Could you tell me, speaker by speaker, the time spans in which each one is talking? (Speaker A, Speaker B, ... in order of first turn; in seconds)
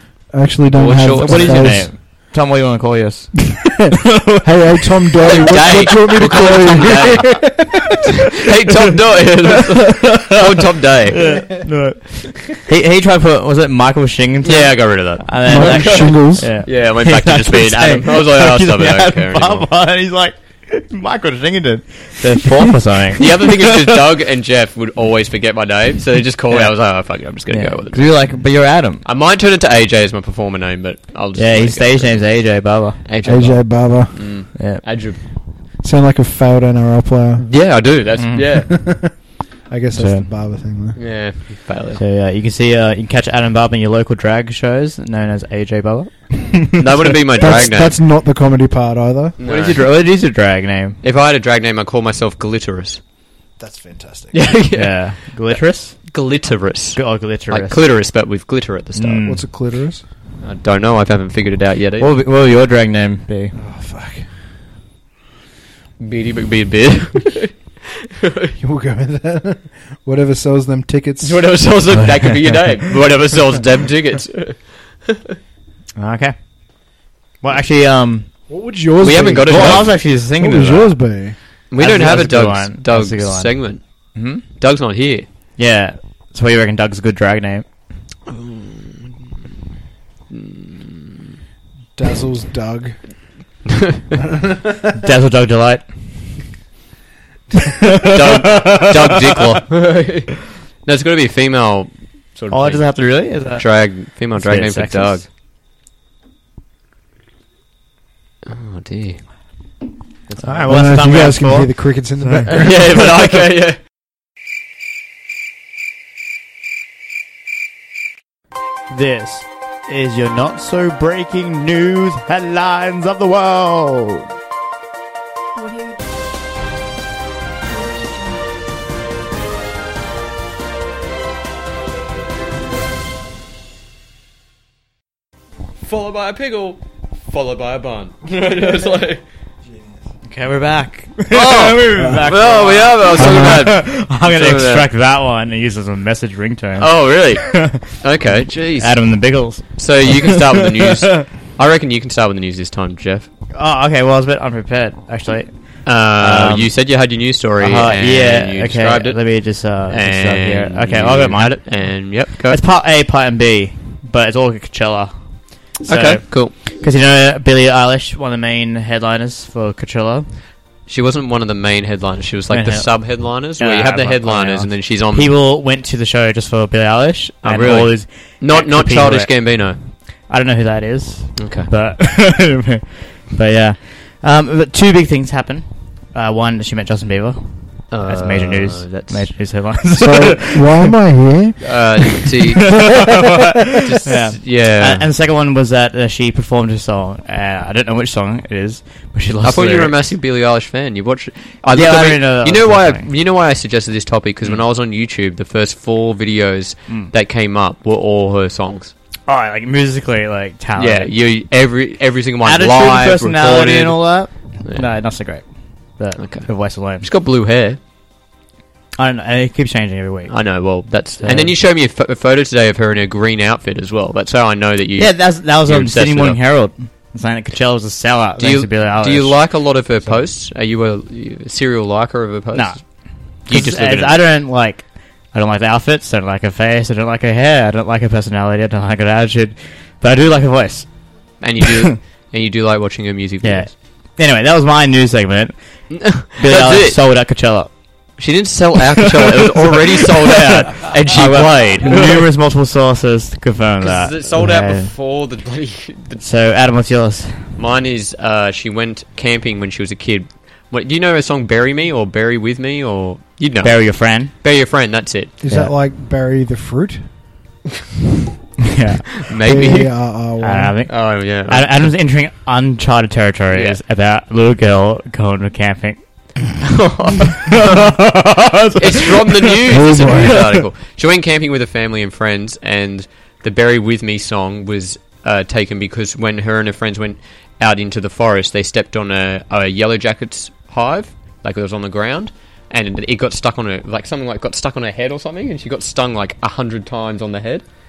Speaker A: 0.3-1.9, 3.5-7.9, 15.4-16.5, 33.2-34.3, 35.8-37.5, 38.4-39.1, 39.7-41.0, 47.4-49.4, 53.6-54.4, 59.2-60.0, 63.5-64.3, 68.6-71.5, 78.5-81.3, 92.0-93.0, 94.3-94.9, 110.4-113.2, 141.9-142.2, 143.2-143.7, 189.9-191.6, 265.4-267.0, 269.4-270.8, 279.7-280.4
Speaker B: 0.7-1.8, 5.2-7.5, 8.2-11.3, 14.4-19.7, 23.1-28.1, 29.0-32.3, 33.0-35.2, 37.4-38.7, 40.9-42.0, 46.8-48.0, 49.4-49.8, 51.0-53.0, 54.3-59.2, 60.4-62.1, 66.0-68.5, 71.2-75.4, 79.0-79.9, 81.7-83.8, 84.6-85.2, 88.3-88.8, 90.3-91.2, 93.7-94.2, 98.0-103.0, 103.5-105.2, 108.5-109.2, 110.3-110.7, 112.5-113.8, 135.8-139.2, 141.3-144.9, 146.8-148.9, 149.8-153.3, 155.8-159.2, 159.9-162.6, 165.8-166.5, 170.9-175.3, 177.4-179.8, 181.4-181.7, 187.9-189.3, 191.6-192.8, 193.8-195.1, 199.4-208.9, 210.8-214.0, 216.2-217.8, 220.3-226.4, 228.4-232.8, 233.5-234.2, 241.4-243.7, 245.9-247.0, 248.2-252.2, 253.8-256.2, 257.6-265.3, 269.2-269.9, 270.9-271.9, 273.5-273.8, 276.6-277.7, 278.8-297.6
Speaker C: 1.2-3.4, 4.0-4.6, 5.2-7.3, 9.9-24.1, 26.5-26.8, 27.5-29.0, 31.4-33.0, 34.5-34.8, 38.2-38.4, 40.0-40.3, 42.0-47.1, 49.4-51.0, 54.7-56.1, 56.9-57.8, 59.0-59.5, 62.0-63.5, 71.9-72.5, 76.0-76.3, 77.4-78.3, 79.4-81.0, 81.8-83.5, 84.1-84.4, 85.6-87.7, 94.9-95.9, 97.6-99.6, 102.5-105.2, 110.6-111.7, 112.2-112.5, 118.9-124.3, 140.2-151.3, 153.5-155.5, 156.2-156.7, 157.6-161.8, 162.4-165.1, 165.8-170.3, 172.5-179.3, 180.3-190.9, 192.2-199.9, 201.7-203.1, 209.3-211.1, 212.4-215.4, 216.0-217.1, 219.0-220.3, 221.2-221.5, 225.0-229.4, 232.5-232.8, 233.4-240.9, 241.6-241.9, 243.4-245.5, 246.2-247.7, 249.0-254.9, 256.2-257.4, 263.6-264.3, 268.6-269.1, 270.4-276.0, 277.2-280.6